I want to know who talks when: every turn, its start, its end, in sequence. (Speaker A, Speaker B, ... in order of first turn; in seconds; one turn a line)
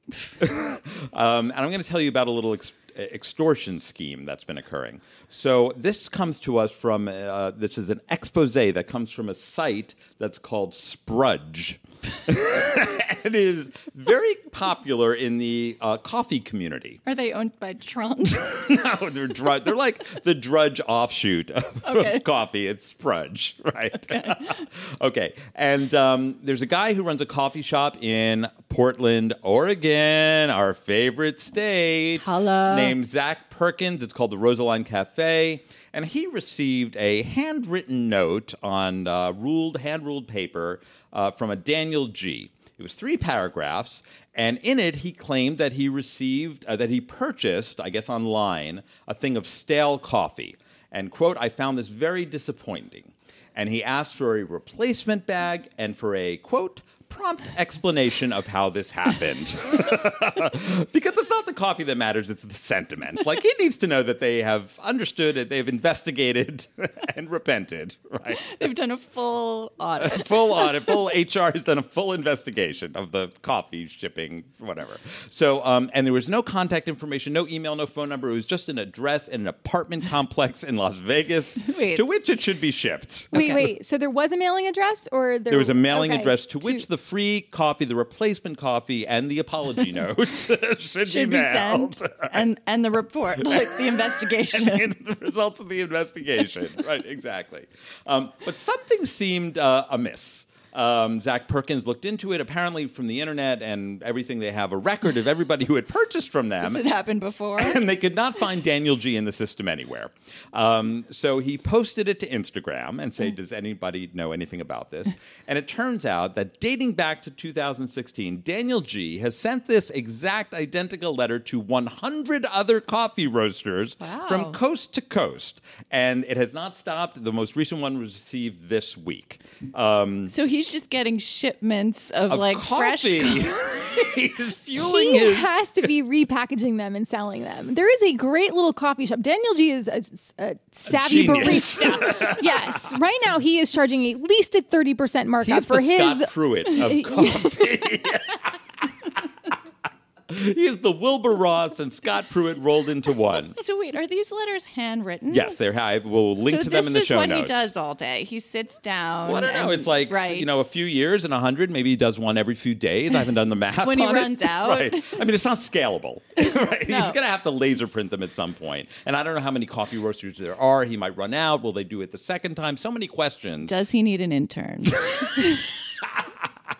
Speaker A: 0.4-17.0
Speaker B: 17.0-18.6
Speaker A: 18.4-68.5
Speaker B: 21.8-22.2
Speaker B: 32.2-33.0
Speaker B: 68.4-70.9
Speaker A: 70.0-83.7
Speaker B: 81.6-82.0
Speaker C: 83.3-86.8
Speaker B: 83.3-83.6
Speaker A: 85.5-92.4
Speaker B: 91.0-94.9
Speaker A: 93.4-106.8
Speaker B: 106.6-107.8
Speaker A: 107.6-130.3
Speaker B: 124.0-124.6
Speaker B: 130.3-133.5
Speaker A: 132.3-135.5
Speaker C: 134.8-147.5
Speaker A: 140.9-142.9
Speaker A: 145.4-149.2
Speaker A: 150.3-153.6
Speaker B: 153.6-155.6
Speaker A: 155.3-157.7
Speaker B: 156.4-160.7
Speaker A: 159.2-173.7
Speaker B: 163.8-165.2
Speaker B: 166.4-167.2
Speaker B: 173.6-175.6